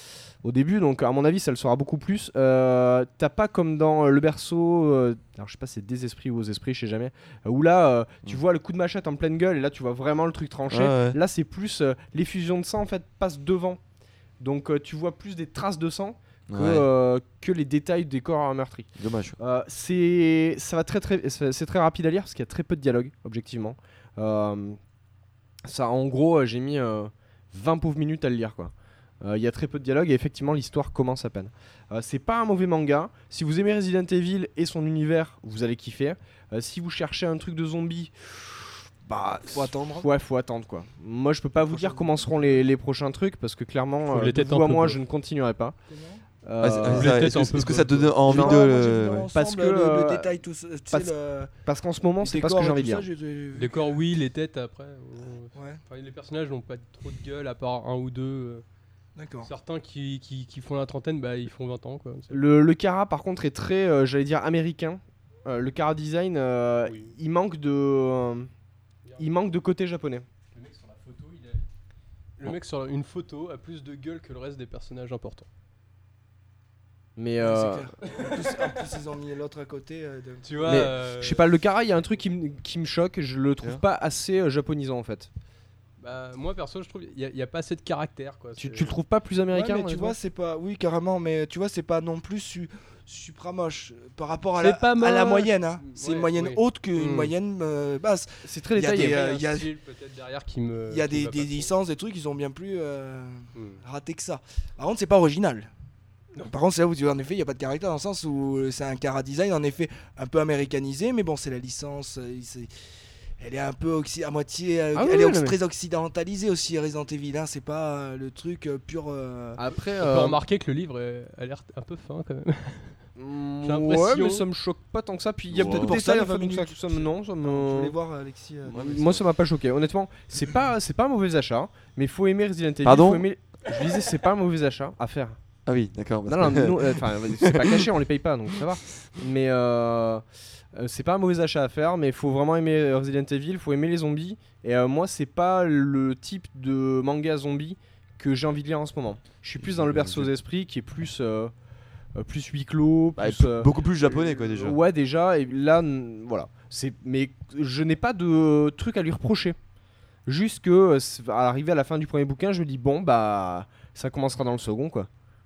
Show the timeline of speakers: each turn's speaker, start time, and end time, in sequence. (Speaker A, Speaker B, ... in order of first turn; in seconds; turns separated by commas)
Speaker A: 0.4-13.8, Speaker B: 10.7-11.2, Speaker A: 14.4-24.8, Speaker B: 16.5-16.9, Speaker B: 19.0-19.4, Speaker A: 25.6-45.8, Speaker C: 39.5-40.1, Speaker C: 41.7-42.3, Speaker D: 44.0-45.0, Speaker C: 45.9-46.2, Speaker A: 46.4-48.6, Speaker B: 46.6-49.3, Speaker D: 46.8-48.2, Speaker C: 48.2-51.5, Speaker A: 49.3-50.3, Speaker A: 50.9-53.1, Speaker C: 52.2-54.0, Speaker D: 53.5-58.6, Speaker C: 55.5-55.8, Speaker C: 59.1-59.5, Speaker D: 59.4-62.4, Speaker A: 62.3-68.5, Speaker D: 66.8-67.1, Speaker D: 69.0-69.3, Speaker A: 69.2-70.2, Speaker D: 70.5-71.7, Speaker D: 72.4-75.5, Speaker A: 77.2-77.9, Speaker C: 77.4-80.9, Speaker D: 78.0-78.9, Speaker D: 80.4-81.5, Speaker A: 80.6-85.3, Speaker D: 86.0-89.0, Speaker A: 88.6-90.2, Speaker C: 89.5-99.7, Speaker D: 94.5-97.3, Speaker A: 98.4-99.3, Speaker D: 98.9-101.7, Speaker C: 100.9-105.7, Speaker D: 103.5-103.8, Speaker C: 106.4-112.7, Speaker C: 113.4-119.6, Speaker A: 114.9-115.6, Speaker A: 119.5-120.4, Speaker D: 119.7-123.0, Speaker A: 123.2-128.0, Speaker D: 123.6-124.5, Speaker B: 125.5-126.0, Speaker C: 125.7-129.0, Speaker A: 128.7-135.3, Speaker B: 128.7-129.2, Speaker B: 132.8-133.3, Speaker B: 135.7-137.9, Speaker A: 136.3-140.2, Speaker A: 140.7-151.5, Speaker B: 149.6-150.3, Speaker A: 152.1-159.6, Speaker B: 153.2-154.8, Speaker A: 160.2-165.1